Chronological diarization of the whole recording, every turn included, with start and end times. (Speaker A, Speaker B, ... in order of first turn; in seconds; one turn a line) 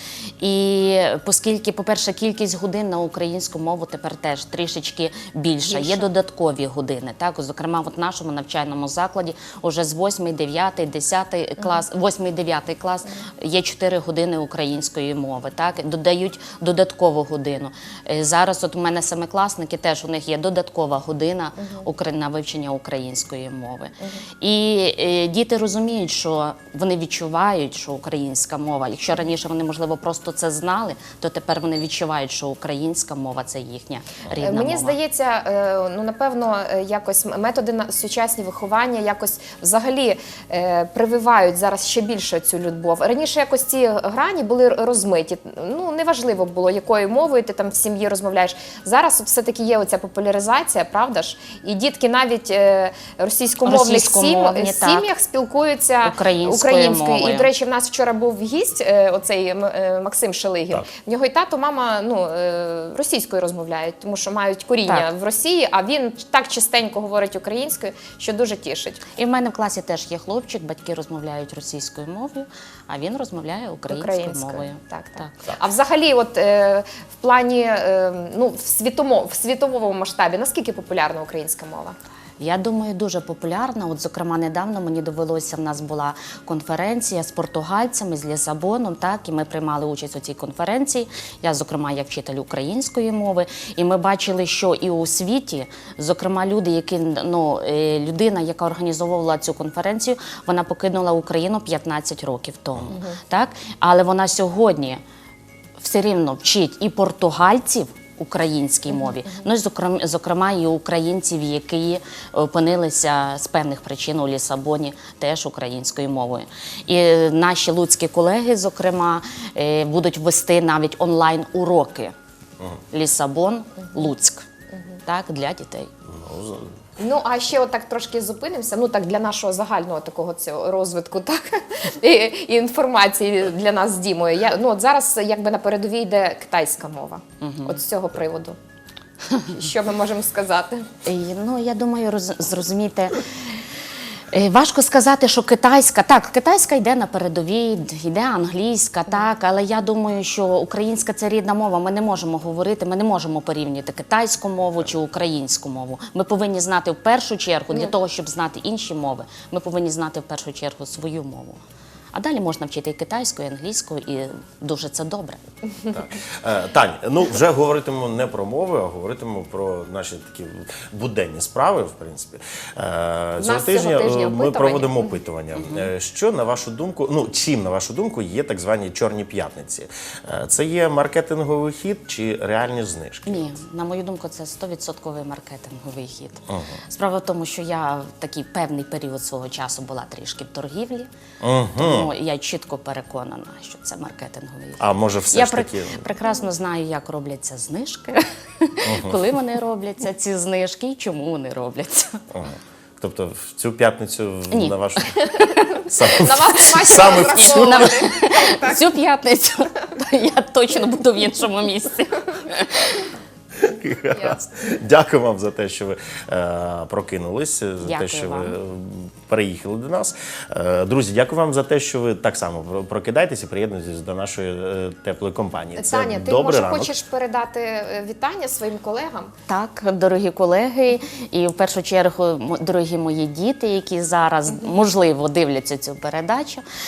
Speaker A: 0.4-35.0
Speaker B: 5.7-6.0
Speaker B: 21.6-21.9
Speaker B: 34.4-69.0
Speaker A: 53.6-55.0
Speaker A: 56.0-57.5
Speaker A: 69.2-75.4
Speaker B: 73.9-81.9
Speaker A: 82.4-105.0
Speaker B: 102.9-103.2
Speaker A: 105.8-122.1
Speaker A: 122.9-124.4
Speaker A: 125.0-125.9
Speaker C: 126.1-126.8
Speaker B: 127.0-138.6
Speaker A: 137.4-137.8
Speaker B: 139.5-140.8
Speaker A: 141.1-143.2
Speaker A: 144.3-161.6
Speaker A: 162.1-165.4
Speaker C: 165.9-183.5
Speaker B: 173.4-175.1
Speaker A: 175.6-175.9
Speaker A: 183.3-191.1
Speaker C: 186.5-186.8
Speaker C: 191.4-192.1
Speaker A: 191.7-202.2
Speaker C: 194.8-196.1
Speaker C: 198.9-199.2
Speaker C: 202.3-205.2
Speaker A: 204.5-205.9
Speaker C: 205.9-207.9
Speaker B: 206.0-208.9
Speaker A: 206.9-213.0
Speaker C: 213.6-227.0
Speaker A: 217.8-218.6
Speaker B: 225.8-229.3
Speaker A: 229.5-236.6